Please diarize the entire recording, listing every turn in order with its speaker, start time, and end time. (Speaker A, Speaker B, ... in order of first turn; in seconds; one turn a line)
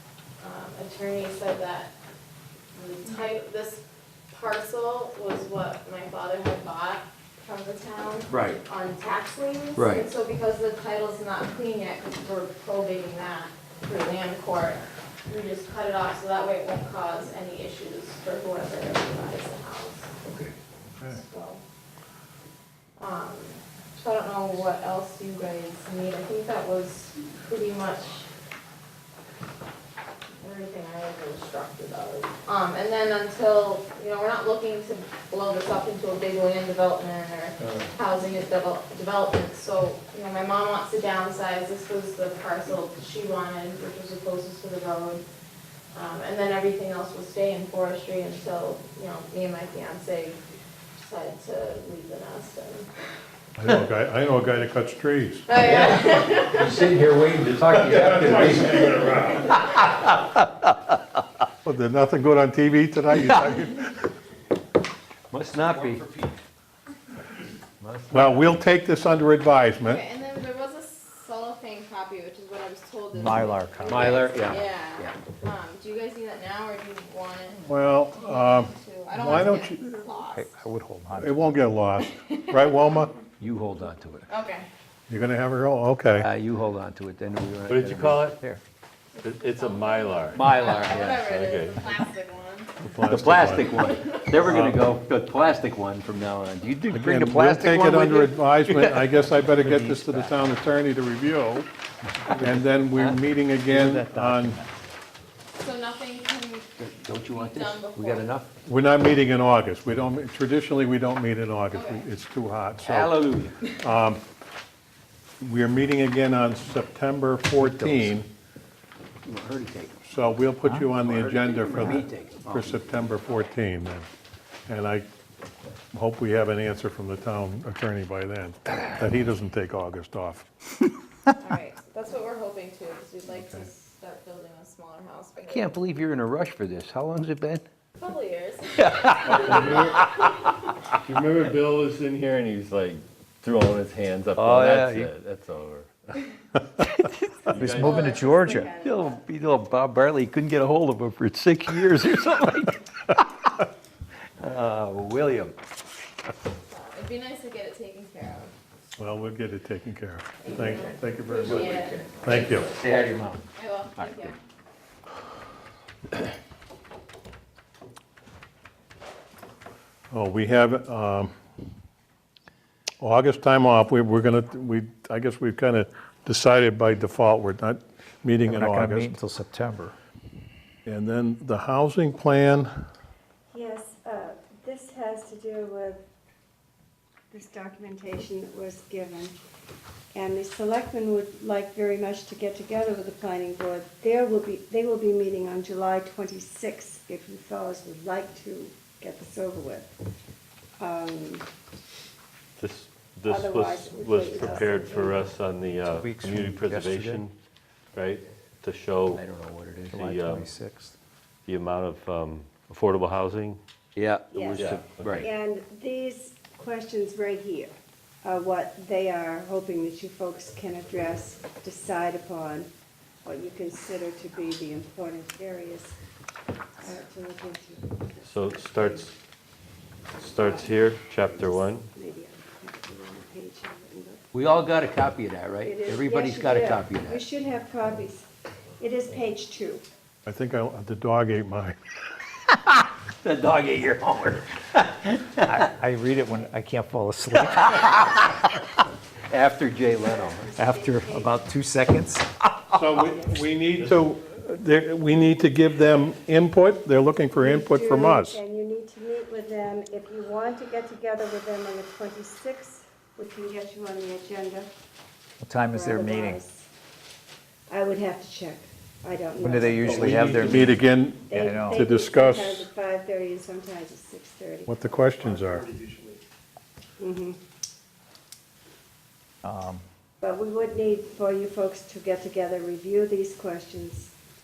Speaker A: 0.4-1.9
Speaker A: 2.7-20.1
Speaker B: 8.3-8.6
Speaker B: 9.8-10.1
Speaker B: 20.2-20.5
Speaker A: 21.1-21.6
Speaker A: 23.0-28.3
Speaker A: 30.4-45.2
Speaker B: 37.6-37.9
Speaker A: 45.9-50.4
Speaker A: 51.0-52.9
Speaker C: 53.6-55.5
Speaker A: 55.5-56.9
Speaker B: 55.6-61.0
Speaker C: 58.0-59.4
Speaker C: 61.6-64.0
Speaker B: 63.1-63.6
Speaker B: 65.3-66.3
Speaker B: 67.8-68.5
Speaker C: 68.1-70.0
Speaker A: 69.8-80.5
Speaker D: 73.1-74.2
Speaker B: 73.8-75.2
Speaker C: 77.6-80.0
Speaker D: 80.3-81.6
Speaker C: 81.2-83.1
Speaker A: 82.0-83.0
Speaker B: 83.4-84.3
Speaker A: 84.3-84.7
Speaker C: 85.1-86.3
Speaker B: 86.2-88.6
Speaker E: 87.7-88.4
Speaker E: 89.2-91.9
Speaker A: 89.5-92.8
Speaker B: 90.3-91.2
Speaker C: 92.8-93.8
Speaker B: 93.1-100.3
Speaker A: 93.8-94.3
Speaker C: 94.4-94.9
Speaker C: 96.9-101.7
Speaker C: 102.3-104.6
Speaker B: 102.4-103.2
Speaker D: 103.7-104.7
Speaker A: 105.5-108.4
Speaker B: 106.8-108.5
Speaker C: 108.6-114.2
Speaker A: 111.7-112.1
Speaker B: 112.8-113.6
Speaker C: 115.4-118.3
Speaker B: 117.5-118.2
Speaker B: 119.3-120.0
Speaker C: 120.0-124.1
Speaker D: 120.6-120.9
Speaker B: 121.0-123.1
Speaker C: 124.7-125.1
Speaker C: 125.9-130.5
Speaker A: 131.4-135.7
Speaker C: 133.3-133.6
Speaker B: 135.4-137.7
Speaker A: 138.0-139.7
Speaker B: 138.8-140.3
Speaker E: 139.3-140.0
Speaker E: 140.9-146.2
Speaker B: 144.3-145.1
Speaker B: 146.9-147.8
Speaker E: 147.5-148.1
Speaker D: 147.5-148.7
Speaker A: 147.7-149.2
Speaker B: 148.5-153.5
Speaker B: 154.4-155.6
Speaker A: 156.6-158.5
Speaker C: 159.0-162.7
Speaker A: 160.4-164.4
Speaker B: 161.4-163.5
Speaker B: 164.0-164.3
Speaker C: 170.1-171.3
Speaker C: 173.0-179.1
Speaker D: 178.4-179.9
Speaker C: 180.9-182.7
Speaker F: 183.5-186.0
Speaker F: 187.3-189.4
Speaker F: 190.1-199.9
Speaker F: 200.8-201.4
Speaker E: 202.6-207.3
Speaker F: 203.3-205.3
Speaker D: 205.9-206.8
Speaker B: 206.7-207.2
Speaker E: 207.9-209.2
Speaker B: 209.1-210.1
Speaker D: 209.9-210.9
Speaker E: 209.9-210.5
Speaker E: 211.5-213.6
Speaker B: 214.0-215.3
Speaker F: 214.3-222.7
Speaker E: 214.6-215.3
Speaker F: 223.2-225.9
Speaker F: 226.8-229.1
Speaker E: 228.2-229.2
Speaker E: 230.2-231.9
Speaker F: 230.4-234.2
Speaker B: 234.3-237.2
Speaker F: 235.6-238.3
Speaker F: 238.8-239.8
Speaker C: 240.3-241.8
Speaker B: 243.2-245.6
Speaker D: 245.4-247.8
Speaker B: 247.4-248.5
Speaker B: 249.3-250.6
Speaker F: 250.0-251.4
Speaker D: 250.6-252.3
Speaker C: 252.7-258.4
Speaker F: 253.0-253.4
Speaker F: 257.4-264.7
Speaker D: 265.4-266.4
Speaker F: 265.7-266.6
Speaker F: 267.7-270.4
Speaker D: 269.4-270.8
Speaker C: 269.9-272.7
Speaker F: 271.3-275.0
Speaker D: 271.3-271.8
Speaker C: 274.7-275.8
Speaker F: 277.0-277.4
Speaker D: 279.4-279.8
Speaker F: 280.2-284.1